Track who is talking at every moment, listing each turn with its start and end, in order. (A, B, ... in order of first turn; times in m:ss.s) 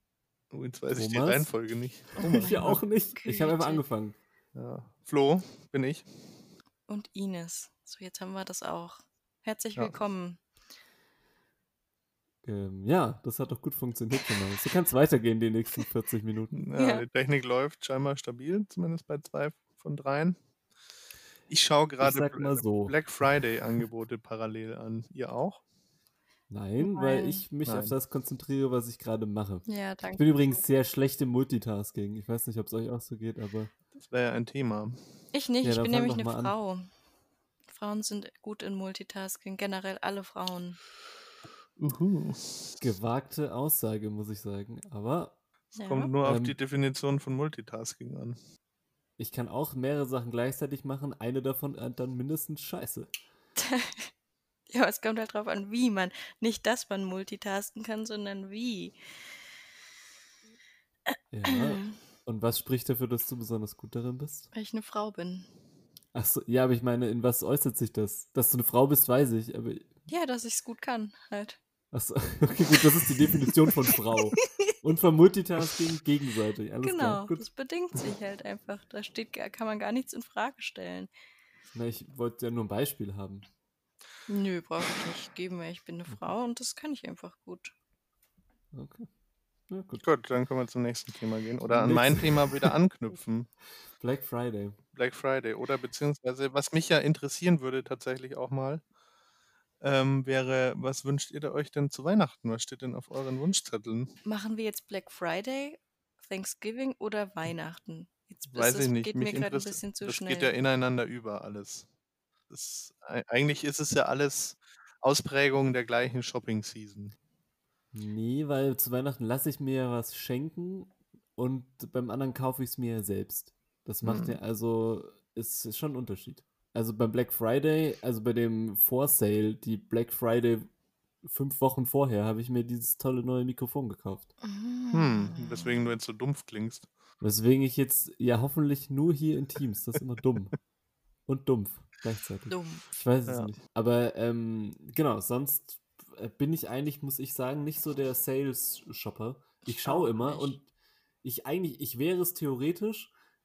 0:00.5-0:02.8 A
0:00.9-0:01.5 B
0:02.2-0:03.8 C
0:02.2-0:04.2 B
0:04.5-0:06.1 A
0:06.9-0:10.4 C
0:12.4-0:16.5 B
0:16.5-0:20.4 A
0:16.8-0:17.0 C
0:21.5-0:25.6 A
0:22.0-0:22.9 B
0:26.5-0:33.7 B
0:26.8-0:27.4 C
0:27.6-0:27.9 A
0:29.6-0:30.6 C
0:34.0-0:35.0 A
0:35.3-0:36.9 C
0:35.6-0:36.5 B
0:37.7-0:40.8 C
0:41.8-0:42.8 A
0:42.8-0:45.4 B
0:45.8-0:46.1 C
0:45.8-0:48.4 A
0:46.2-0:46.6 B
0:49.2-0:53.1 B
0:53.6-0:54.1 C
0:54.7-0:58.9 C
1:01.1-1:02.0 C
1:01.3-1:04.5 B
1:04.5-1:05.5 C
1:06.1-1:09.9 B
1:10.1-1:11.6 C
1:11.9-1:17.4 B
1:13.3-1:14.4 C
1:16.8-1:21.1 C
1:21.7-1:23.4 B
1:24.3-1:27.7 C
1:28.7-1:29.1 B
1:29.7-1:30.0 B
1:30.0-1:33.5 A
1:31.7-1:32.8 B
1:34.0-1:34.8 B
1:34.9-1:38.8 A
1:39.8-1:44.2 A
1:44.2-1:50.5 C
1:48.5-1:51.9 A
1:52.5-1:57.1 A
1:57.9-2:10.7 B
2:04.0-2:04.4 A
2:11.2-2:14.3 B
2:14.4-2:15.9 C
2:14.9-2:16.9 A
2:17.2-2:20.5 B
2:21.3-2:30.7 B
2:22.5-2:22.9 C
2:29.7-2:30.6 C
2:31.2-2:33.1 B